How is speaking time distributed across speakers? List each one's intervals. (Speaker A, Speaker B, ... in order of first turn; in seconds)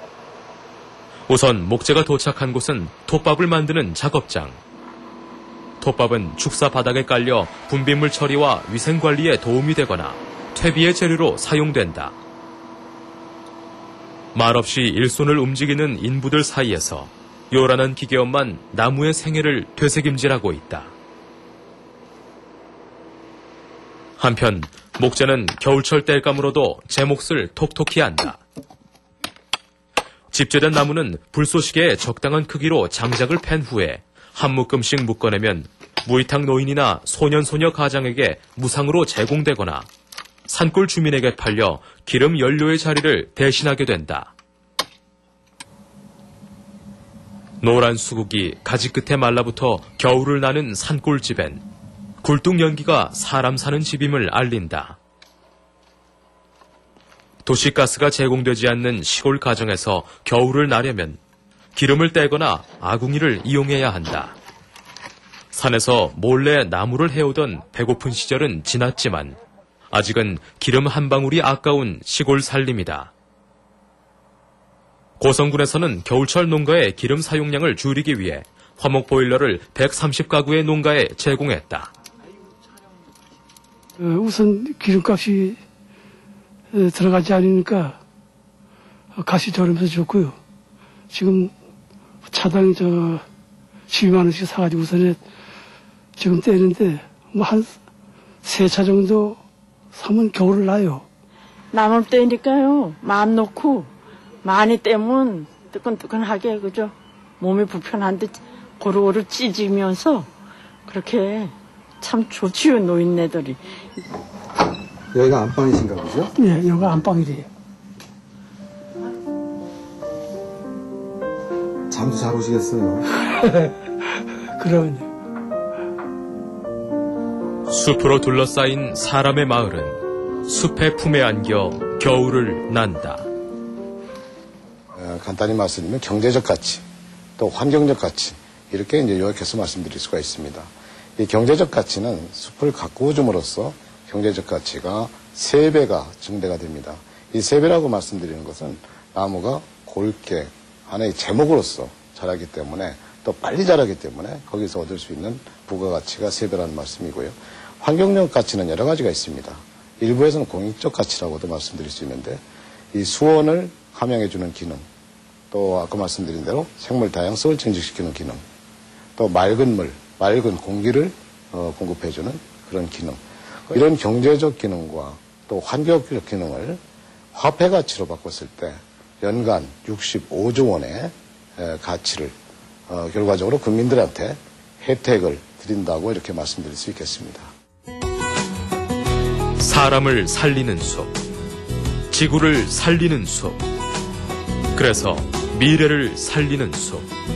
Speaker A: 1.3-4.6, 5.8-12.2, 14.3-20.9, 24.2-28.4, 30.3-39.9, 40.5-44.3, 47.6-51.6, 52.2-55.0, 57.5-61.2, 61.8-64.4, 65.5-69.4, 69.9-73.1, 75.2-81.9, 127.7-133.3, 189.6-191.1, 192.1-193.6, 194.8-197.1
Speaker B: 84.0-85.6, 86.7-88.0, 89.2-90.4, 91.1-91.5, 92.3-93.2, 93.9-95.2, 96.2-97.7, 98.4-99.4, 99.9-101.0, 116.3-117.5, 123.4-123.7, 124.6-125.1
Speaker C: 101.7-103.9, 104.4-110.3, 110.9-113.6
Speaker D: 115.1-116.3, 121.9-123.0
Speaker E: 134.9-136.8, 137.4-162.4, 162.9-164.8, 165.5-168.4, 169.2-176.8, 177.3-182.3, 182.9-187.5